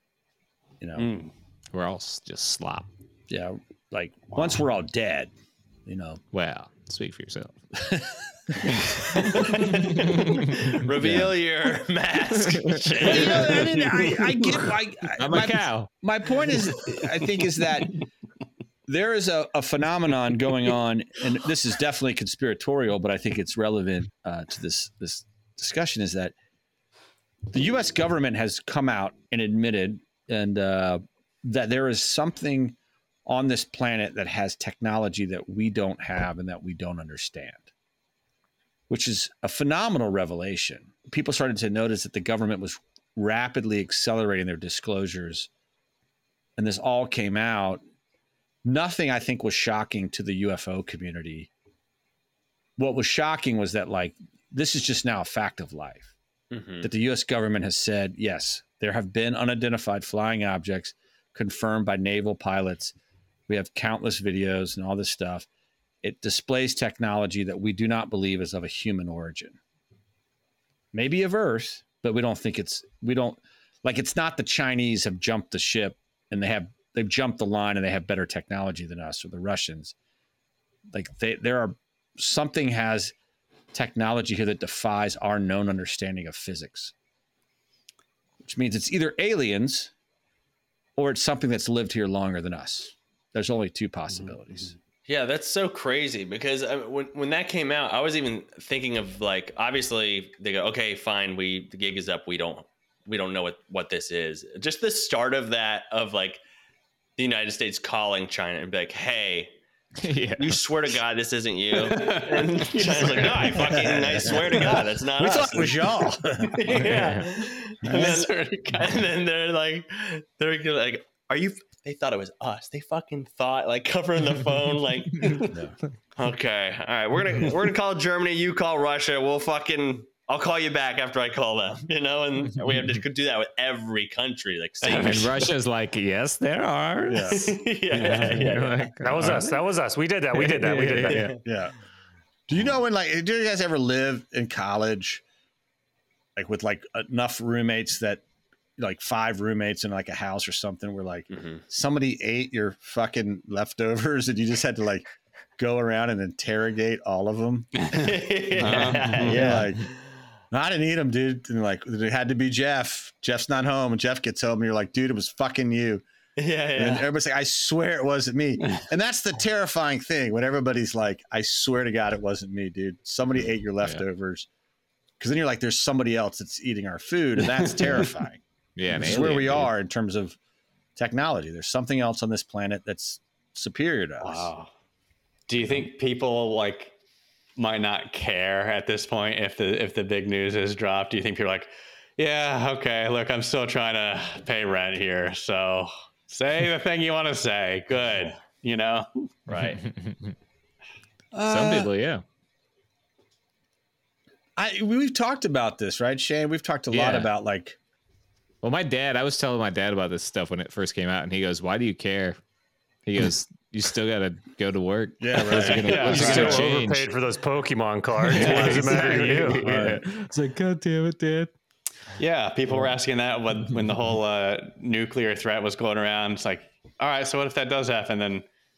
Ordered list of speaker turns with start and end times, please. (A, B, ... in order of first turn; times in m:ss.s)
0:00.8-0:01.1 A
0:01.0-0:01.3 B
0:01.7-0:02.9 C
0:03.3-0:05.3 A
0:04.3-0:04.6 B
0:05.9-0:06.2 A
0:06.3-0:07.6 C
0:07.8-0:08.8 A
0:09.2-0:13.8 D
0:09.9-0:10.8 C
0:10.9-0:11.3 A
0:12.3-0:13.5 C
0:13.0-0:18.0 A
0:13.7-0:14.3 B
0:15.1-0:15.9 C
0:18.9-0:26.3 A
0:27.5-0:37.7 A
0:38.9-0:45.5 A
0:46.6-0:47.8 A
0:48.6-0:51.5 A
0:52.8-0:56.1 A
0:56.5-0:56.9 D
0:56.8-1:03.0 A
1:03.5-1:05.5 A
1:06.0-1:09.6 A
1:10.9-1:19.9 A
1:20.9-1:23.2 A
1:23.7-1:26.9 A
1:28.4-1:29.9 A
1:31.0-1:34.7 A
1:34.1-1:34.6 B
1:35.1-1:46.4 D
1:47.2-1:49.6 D
1:50.0-1:50.6 C
1:50.4-2:05.5 D
1:51.8-1:54.8 B
1:53.7-1:57.0 A
1:56.6-1:56.9 B
1:56.8-1:57.2 C
1:57.8-1:58.2 A
1:57.9-1:59.0 B
2:05.5-2:05.8 A
2:06.2-2:15.5 D
2:14.8-2:15.4 B
2:15.0-2:17.5 C
2:17.1-2:17.6 A
2:17.3-2:19.3 D
2:17.9-2:18.6 B
2:18.4-2:19.5 C
2:19.0-2:21.3 E
2:20.6-2:21.4 C
2:21.0-2:21.4 D
2:21.4-2:21.7 A
2:22.5-2:25.2 A
2:26.4-2:28.2 A
2:28.8-2:37.9 A
2:31.3-2:31.6 D
2:37.9-2:39.9 D
2:38.6-2:39.5 B
2:38.6-2:39.9 A
2:39.4-2:39.7 C
2:40.5-2:46.0 A
2:46.4-2:47.1 D
2:46.8-2:54.5 A
2:55.2-3:00.4 A
2:57.6-2:58.0 B
2:58.8-2:59.7 C
3:01.0-3:04.5 A
3:04.2-3:04.7 B
3:05.5-3:06.9 B
3:07.6-3:19.3 B
3:19.5-3:19.8 D
3:19.5-3:20.3 C
3:21.3-3:21.9 A
3:21.4-3:22.2 C
3:24.6-3:27.8 A
3:26.9-3:27.3 C
3:28.6-3:32.4 C
3:33.1-3:37.1 C
3:35.2-3:36.7 A
3:35.6-3:36.6 B
3:36.0-3:39.6 E
3:38.3-3:41.5 C
3:38.3-3:39.2 B
3:39.5-3:40.1 A
3:42.2-3:48.5 B